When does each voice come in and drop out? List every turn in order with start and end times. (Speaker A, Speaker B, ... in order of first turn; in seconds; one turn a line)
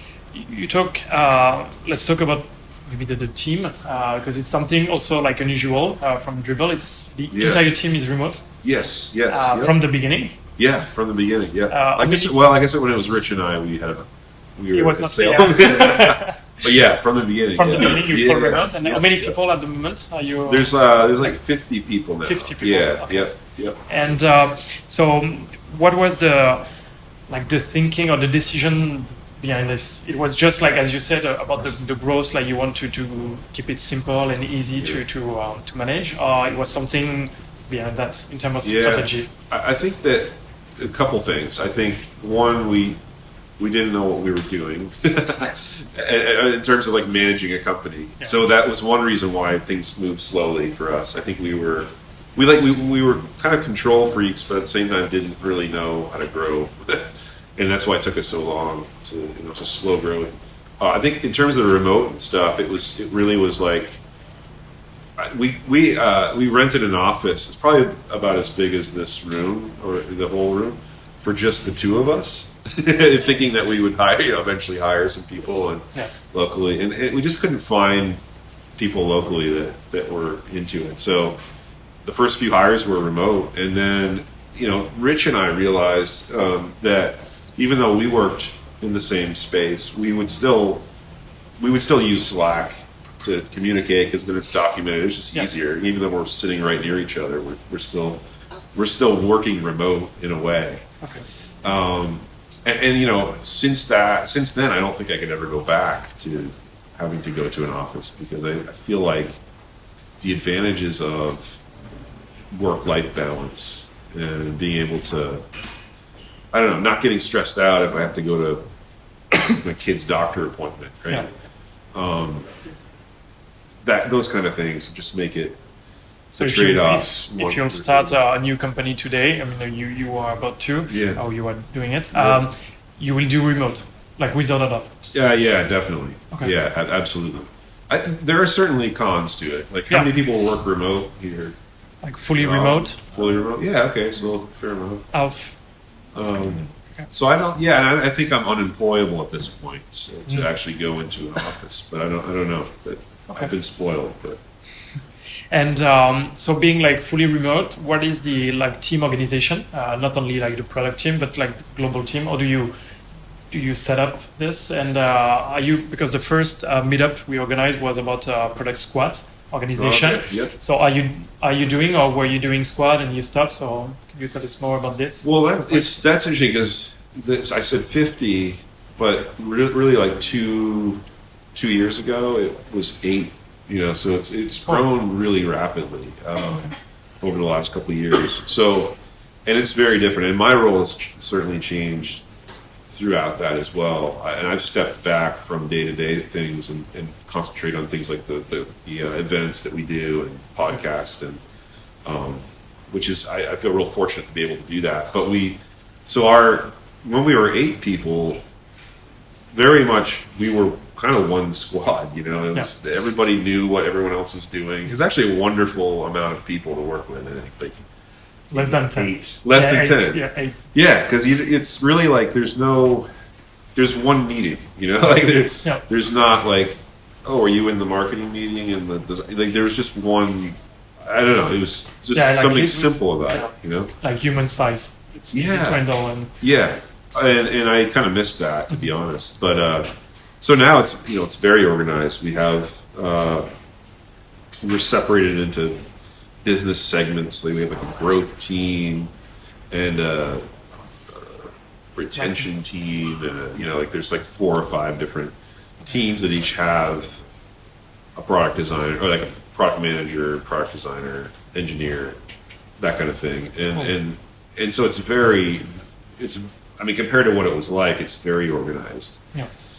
Speaker A: 0.3-8.5
Speaker B: 7.3-7.7
Speaker B: 8.6-9.8
Speaker A: 9.3-10.4
Speaker B: 10.6-19.4
Speaker A: 11.7-12.4
Speaker A: 14.7-16.7
Speaker A: 17.6-21.4
Speaker B: 20.5-23.8
Speaker A: 22.2-23.3
Speaker A: 23.9-26.7
Speaker A: 27.3-39.3
Speaker B: 38.6-43.0
Speaker B: 43.6-64.0
Speaker B: 65.2-78.2
Speaker B: 78.8-81.4
Speaker B: 82.0-90.9
Speaker B: 91.6-100.8
Speaker A: 101.0-101.3
Speaker B: 101.6-109.4
Speaker B: 110.2-111.6
Speaker B: 112.5-115.5
Speaker B: 116.5-118.7
Speaker B: 119.3-121.3
Speaker B: 121.9-122.5
Speaker B: 123.8-125.6
Speaker B: 126.3-128.2
Speaker A: 126.4-134.9
Speaker B: 130.9-131.2
Speaker B: 132.1-132.4
Speaker B: 135.1-141.6
Speaker A: 142.0-143.0
Speaker B: 142.4-145.1
Speaker A: 145.1-145.6
Speaker B: 146.1-154.4
Speaker A: 155.5-162.7
Speaker A: 163.5-176.0
Speaker B: 169.7-170.5
Speaker B: 175.2-181.0
Speaker B: 181.5-192.2
Speaker B: 192.9-201.4
Speaker B: 202.0-208.4
Speaker B: 209.5-217.9
Speaker A: 218.5-220.6
Speaker B: 218.5-223.1
Speaker B: 223.8-233.9
Speaker A: 232.1-236.3
Speaker B: 235.3-235.8
Speaker B: 236.4-243.5
Speaker B: 244.5-245.9
Speaker B: 246.4-249.1
Speaker B: 249.7-250.5
Speaker B: 251.1-257.2
Speaker B: 258.1-262.2
Speaker B: 262.8-269.3